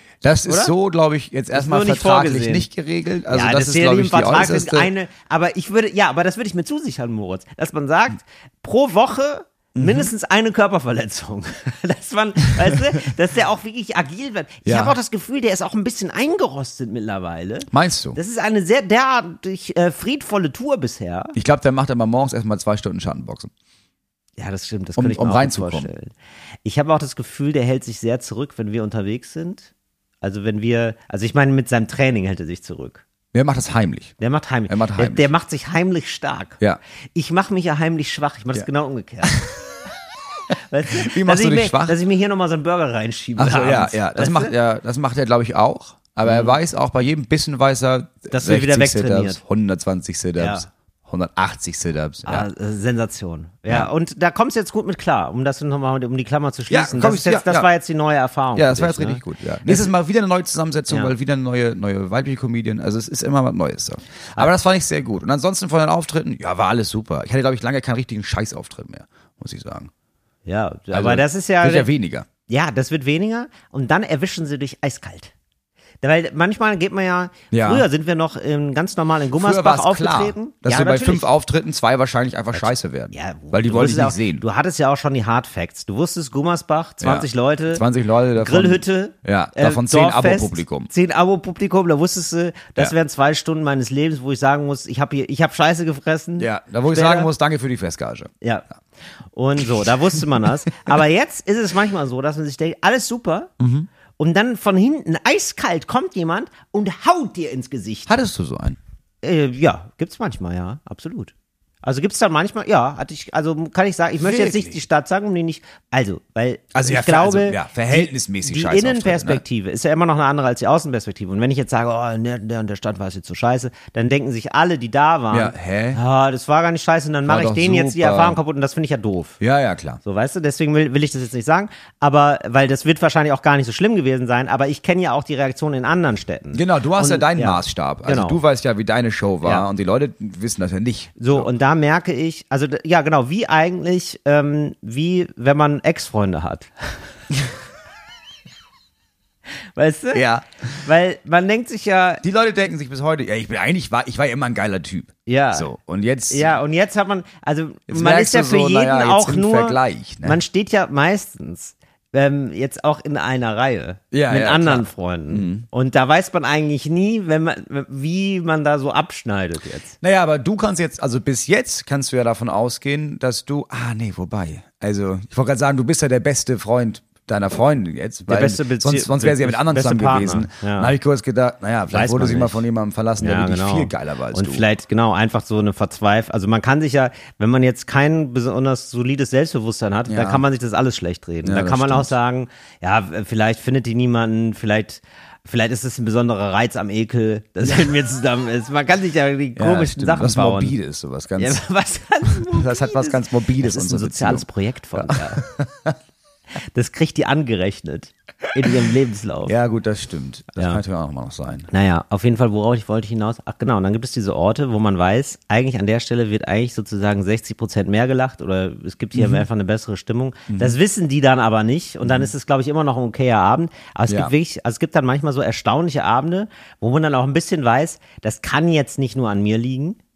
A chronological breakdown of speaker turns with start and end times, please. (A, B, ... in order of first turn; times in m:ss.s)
0:00.2-0:04.9 A
0:00.4-0:00.7 B
0:01.5-0:02.7 B
0:03.3-0:21.4 B
0:09.8-0:10.1 A
0:14.6-0:15.0 A
0:17.7-0:18.2 A
0:21.4-0:23.5 A
0:24.4-0:29.7 B
0:25.0-0:25.9 A
0:30.2-0:33.0 B
0:33.3-0:34.2 A
0:34.2-0:36.6 B
0:34.7-0:35.3 A
0:37.2-0:39.5 B
0:39.2-0:39.5 A
0:40.7-0:44.5 B
0:41.0-0:42.0 A
0:43.4-0:52.5 A
0:46.3-0:46.6 B
0:48.3-0:49.4 B
0:50.4-0:50.7 B
0:52.3-0:59.9 B
0:56.7-0:57.7 A
0:58.6-1:09.9 A
1:10.5-1:11.9 B
1:10.9-1:12.3 A
1:12.5-1:15.3 B
1:16.0-1:21.3 B
1:17.5-1:17.9 A
1:19.3-1:24.4 A
1:22.6-1:27.8 B
1:27.0-1:30.9 A
1:28.4-1:37.3 B
1:36.4-1:38.3 A
1:39.3-1:43.5 B
1:43.6-1:43.9 A
1:44.2-1:48.2 B
1:48.1-1:48.8 A
1:49.2-1:51.3 B
1:51.8-2:09.4 B
1:54.2-1:54.8 A
1:56.7-1:59.4 A
2:05.3-2:06.0 A
2:07.3-2:08.4 A
2:09.4-2:10.0 A
2:10.0-2:18.4 B
2:16.5-2:21.5 A
2:21.2-2:26.9 B
2:29.8-2:30.2 B
2:30.1-2:30.8 A
2:30.8-2:32.2 B
2:32.2-2:36.6 A
2:35.3-2:35.7 B
2:36.3-2:50.0 B
2:37.9-2:40.4 A
2:44.1-2:45.7 A
2:50.0-3:04.7 A
2:58.3-3:00.9 B
3:01.9-3:02.6 B
3:03.2-3:20.8 B
3:10.1-3:10.4 A
3:11.4-3:12.2 A
3:19.6-3:21.6 A
3:21.4-3:25.5 B
3:22.3-3:26.0 A
3:26.7-3:29.6 B
3:29.5-3:31.7 A
3:31.7-3:50.0 B
3:39.2-3:39.5 A
3:40.5-3:40.8 A
3:42.0-3:42.3 A
3:44.1-3:44.3 A